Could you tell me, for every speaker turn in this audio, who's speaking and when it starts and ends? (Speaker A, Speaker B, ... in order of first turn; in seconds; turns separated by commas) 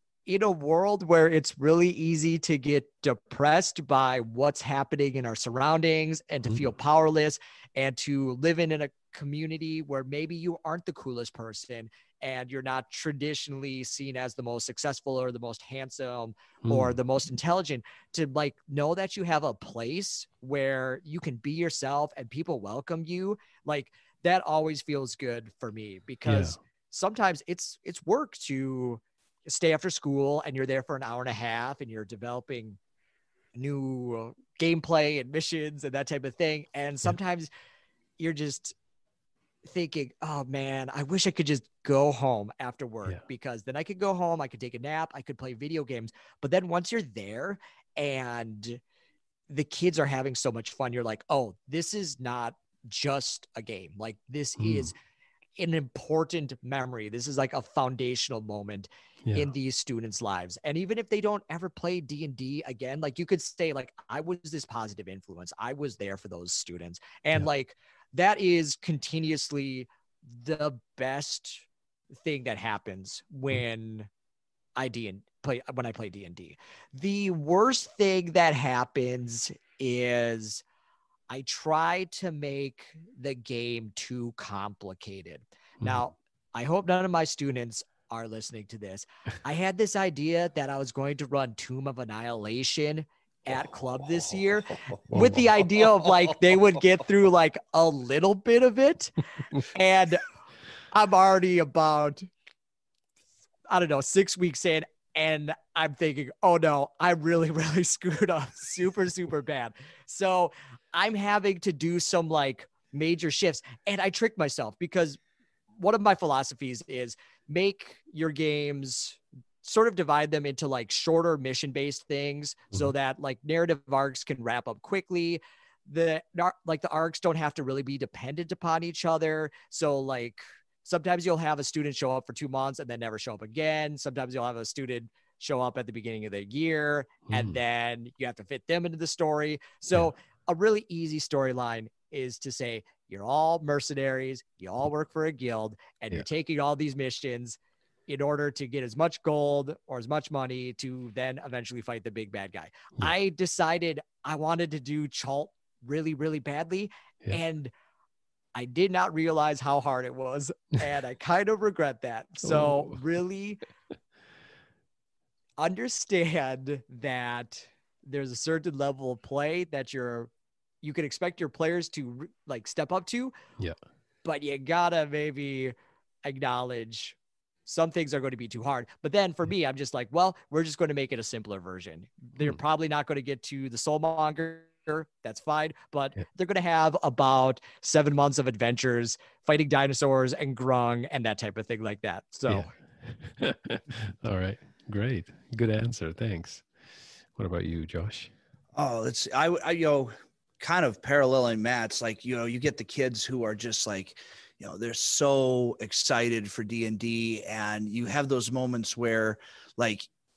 Speaker A: 0.2-32.8, Speaker B: 16.6-16.9, Speaker B: 26.2-26.6, Speaker A: 33.5-37.5, Speaker A: 38.2-38.7, Speaker A: 39.6-48.8, Speaker A: 49.5-55.0, Speaker B: 54.6-54.9, Speaker A: 55.6-71.7, Speaker B: 59.2-59.5, Speaker A: 72.2-74.1, Speaker A: 74.8-80.6, Speaker A: 81.3-100.3, Speaker B: 85.8-86.1, Speaker B: 95.1-95.5, Speaker A: 100.9-102.3, Speaker A: 103.7-115.2, Speaker A: 115.8-157.7, Speaker B: 137.3-137.6, Speaker A: 158.5-163.6, Speaker B: 162.4-163.0, Speaker A: 165.6-170.3, Speaker A: 170.8-173.3, Speaker A: 174.2-192.7, Speaker B: 192.5-196.7, Speaker B: 197.3-198.3, Speaker C: 198.7-210.1